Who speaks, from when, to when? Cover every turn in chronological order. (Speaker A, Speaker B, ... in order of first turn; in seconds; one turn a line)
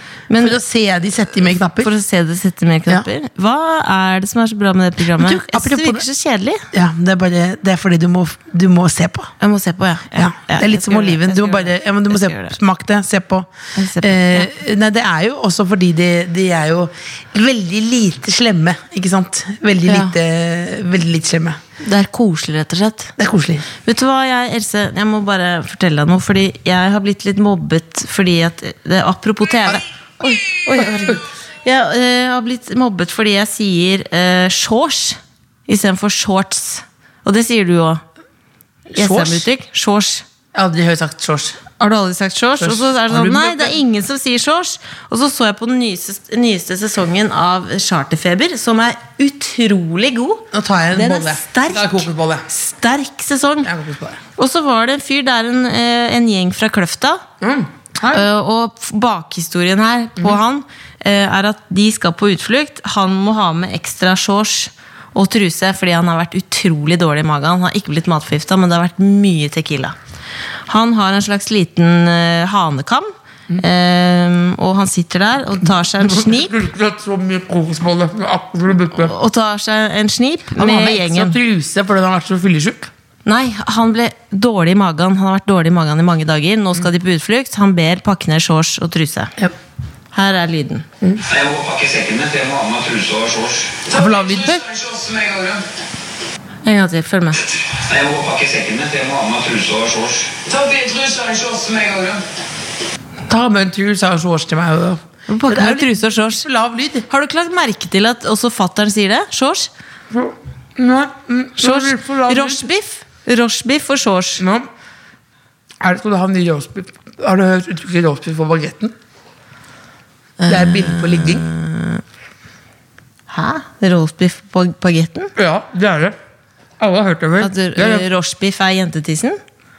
Speaker A: 0.3-0.6
Speaker B: 0.4-1.9
Speaker A: 1.8-6.7
Speaker B: 5.2-6.1
Speaker B: 6.7-9.3
Speaker A: 9.4-12.6
Speaker B: 10.2-13.5
Speaker A: 13.8-14.5
Speaker B: 14.0-21.6
Speaker A: 19.9-20.1
Speaker A: 21.8-23.1
Speaker B: 23.2-23.7
Speaker A: 23.8-38.0
Speaker B: 30.7-31.2
Speaker A: 38.9-40.3
Speaker B: 38.9-39.5
Speaker B: 40.5-41.6
Speaker A: 41.8-53.7
Speaker B: 42.6-43.8
Speaker B: 50.5-52.5
Speaker B: 53.6-54.2
Speaker A: 54.4-57.2
Speaker B: 57.4-58.3
Speaker A: 58.1-70.0
Speaker A: 70.7-76.6
Speaker B: 75.8-79.2
Speaker A: 79.0-81.4
Speaker B: 80.6-82.9
Speaker A: 83.2-89.3
Speaker A: 90.1-90.9
Speaker C: 91.2-95.6
Speaker B: 93.9-94.6
Speaker A: 96.7-97.4
Speaker C: 97.5-102.2
Speaker B: 103.3-107.1
Speaker A: 105.3-106.5
Speaker A: 107.1-109.7
Speaker B: 110.1-112.7
Speaker A: 111.6-114.4
Speaker B: 114.4-114.7
Speaker B: 115.8-119.0
Speaker A: 120.4-122.0
Speaker B: 120.5-121.5
Speaker A: 123.3-125.3
Speaker B: 125.4-126.2
Speaker B: 126.8-128.1
Speaker A: 127.4-129.4